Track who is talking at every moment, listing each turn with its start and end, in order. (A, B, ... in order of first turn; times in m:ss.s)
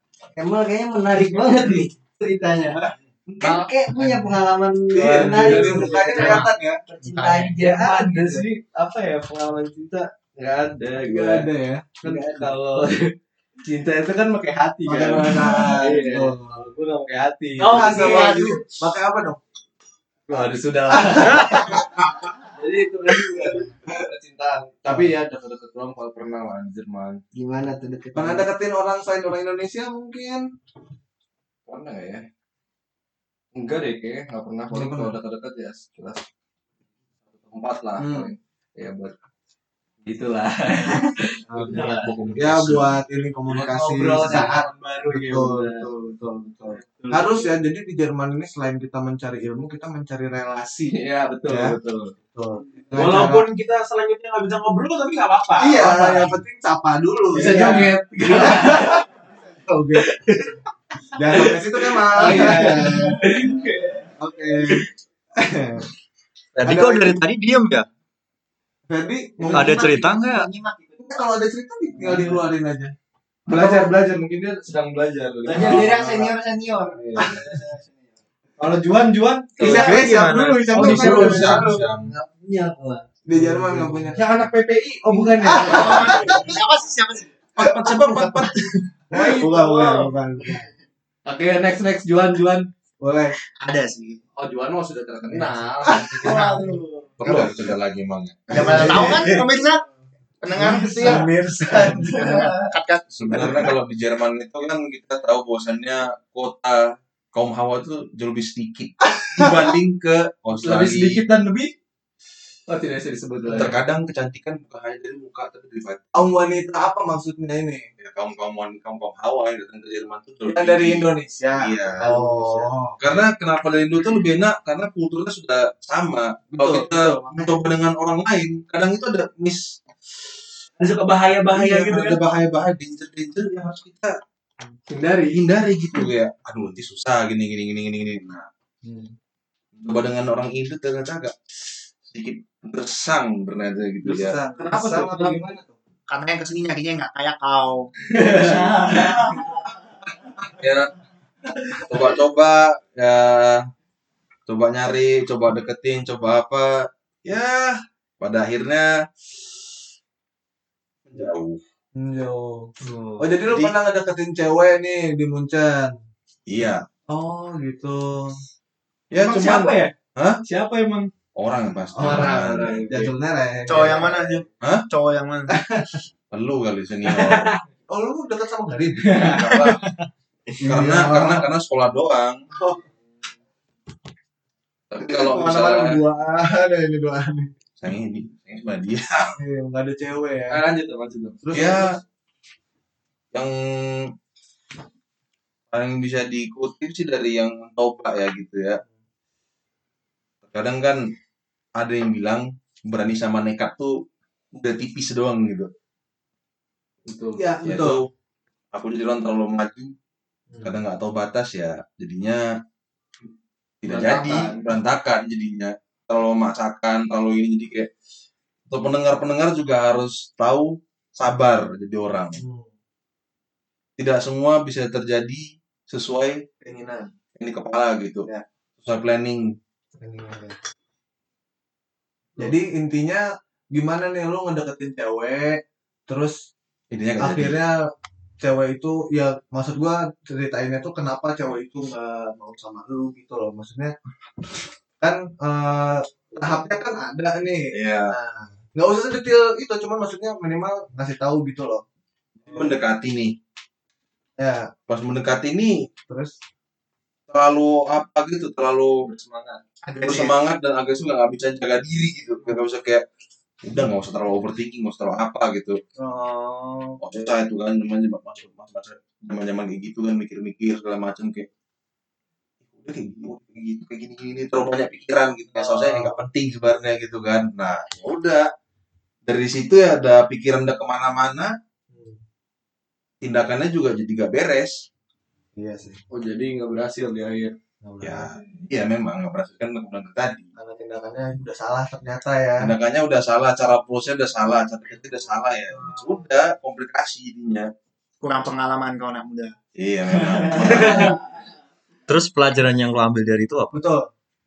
0:00.3-0:02.9 A
0:02.8-0:04.2 B
0:03.4-0:08.4 A
0:04.9-0:06.8 B
0:05.2-0:06.4 C
0:06.2-0:06.5 D
0:07.0-0:07.6 D
0:07.6-0:11.5 C
0:11.0-0:12.5 B
0:12.0-0:13.1 C
0:13.6-0:18.4 C
0:14.8-0:16.5 B
0:17.6-0:19.4 B
0:17.6-0:18.5 A
0:20.3-0:21.9 C
0:20.3-0:21.8 B
0:22.5-0:27.2 C
0:24.9-0:25.1 B
0:27.3-0:28.5 A
0:28.1-0:30.4 B
0:31.7-0:32.2 C
0:33.5-0:36.2 C
0:34.7-0:35.1 B
0:37.3-0:39.1 C
0:38.0-0:38.3 B
0:40.0-0:42.8 C
0:41.5-0:41.8 B
0:42.0-0:43.0 E
0:42.4-0:50.9 B
0:43.5-0:47.5 C
0:50.9-0:52.2 C
0:51.5-0:51.8 B
0:52.3-0:53.5 B
0:52.9-0:56.2 F
0:55.6-0:58.9 B
0:57.3-0:59.0 C
0:57.4-0:59.0 F
0:59.5-1:00.1 B
1:01.1-1:03.2 B
1:02.0-1:03.7 C
1:02.2-1:04.0 F
1:04.2-1:05.9 B
1:06.6-1:07.9 G
1:06.6-1:07.2 B
1:08.9-1:10.0 B
1:09.5-1:11.1 A
1:09.5-1:10.5 G
1:11.0-1:12.9 B
1:12.0-1:12.4 C
1:13.5-1:16.3 C
1:13.5-1:13.9 B
1:15.4-1:17.9 A
1:16.9-1:17.5 C
1:18.6-1:20.0 C
1:19.6-1:21.8 B
1:19.7-1:20.7 G
1:20.8-1:22.1 E
1:20.8-1:21.2 F
1:20.9-1:23.0 A
1:20.9-1:21.3 C
1:23.3-1:24.2 B
1:23.7-1:26.1 C
1:24.2-1:26.1 F
1:25.4-1:26.5 B
1:25.7-1:27.3 D
1:27.6-1:28.6 E
1:29.1-1:30.7 B
1:31.2-1:32.7 C
1:33.0-1:33.4 B
1:33.6-1:34.2 D
1:34.4-1:36.6 C
1:35.4-1:36.7 B
1:36.2-1:36.8 D
1:36.3-1:37.1 A
1:37.2-1:38.9 E
1:37.2-1:37.5 B
1:38.5-1:39.8 D
1:38.5-1:39.5 B
1:40.4-1:41.3 D
1:40.5-1:42.6 B
1:41.8-1:43.6 D
1:43.1-1:51.2 E
1:43.3-1:43.6 B
1:50.6-1:51.7 C
1:52.7-1:53.8 C
1:53.5-1:56.1 E
1:56.1-1:57.9 B
1:58.0-2:02.1 E
2:00.5-2:03.2 B
2:03.0-2:09.7 E
2:06.5-2:07.7 B
2:10.8-2:12.2 F
2:11.5-2:14.1 E
2:15.3-2:18.5 E
2:18.8-2:19.1 B
2:19.8-2:21.3 E
2:22.1-2:24.4 E
2:24.0-2:25.7 B
2:24.7-2:25.4 C
2:26.1-2:27.9 D
2:28.2-2:29.2 E
2:28.3-2:28.6 C
2:30.6-2:30.9 E
2:31.9-2:33.6 E
2:34.5-2:38.9 E
2:41.1-2:41.6 E
2:41.9-2:45.9 B
2:42.9-2:43.3 G
2:46.5-2:46.9 E
2:47.1-2:48.3 B
2:49.1-2:50.4 E
2:49.2-2:49.9 F
2:50.4-2:51.1 F
2:51.4-2:53.1 E
2:51.9-2:54.5 B
2:52.1-2:52.8 C
2:53.7-2:55.5 D
2:54.6-2:54.9 E
2:55.5-2:56.0 B
2:56.3-2:57.6 E
2:57.1-2:57.4 F
2:57.9-2:59.3 B
2:59.1-2:59.8 E
2:59.1-2:59.4 F
3:00.6-3:01.5 B
3:00.6-3:02.4 E
3:04.9-3:06.0 E
3:05.0-3:07.5 B
3:07.8-3:09.4 E
3:09.4-3:10.6 B
3:10.5-3:11.4 C
3:11.4-3:11.9 B
3:11.5-3:12.0 E
3:13.3-3:14.1 E
3:15.7-3:18.8 E
3:20.4-3:21.1 E
3:21.8-3:24.0 E
3:24.5-3:25.7 E
3:27.1-3:27.5 C
3:27.4-3:28.0 B
3:27.6-3:28.1 E
3:28.7-3:29.9 E
3:30.6-3:32.4 E
3:33.8-3:37.9 E
3:33.9-3:34.6 C
3:38.7-3:42.4 E
3:42.4-3:42.7 B
3:44.0-3:46.4 E
3:46.6-3:47.1 B
3:47.4-3:49.6 E
3:50.0-3:50.6 B
3:52.4-3:56.5 B
3:56.9-3:57.6 E
3:57.2-3:57.8 B
3:58.4-4:03.9 B
4:05.0-4:11.8 B
4:07.7-4:08.1 E
4:12.4-4:13.4 E
4:14.4-4:14.7 B
4:14.9-4:15.8 E
4:16.1-4:16.4 B
4:17.3-4:19.1 E
4:19.0-4:19.6 C
4:19.8-4:20.4 D
4:20.0-4:23.0 E
4:23.6-4:25.8 E
4:26.0-4:27.0 B
4:27.0-4:31.5 E
4:32.7-4:38.5 E
4:35.5-4:36.1 B
4:39.2-4:41.5 E
4:41.9-4:42.2 B
4:43.2-4:44.8 E
4:45.6-4:46.0 B
4:46.1-4:47.6 C
4:47.8-4:48.3 B
4:48.0-4:50.5 E
4:50.6-4:52.7 B
4:52.6-4:57.7 E
4:58.2-4:59.6 D
4:59.8-5:01.2 E
5:00.8-5:01.1 B
5:02.1-5:03.8 G
5:03.7-5:04.1 B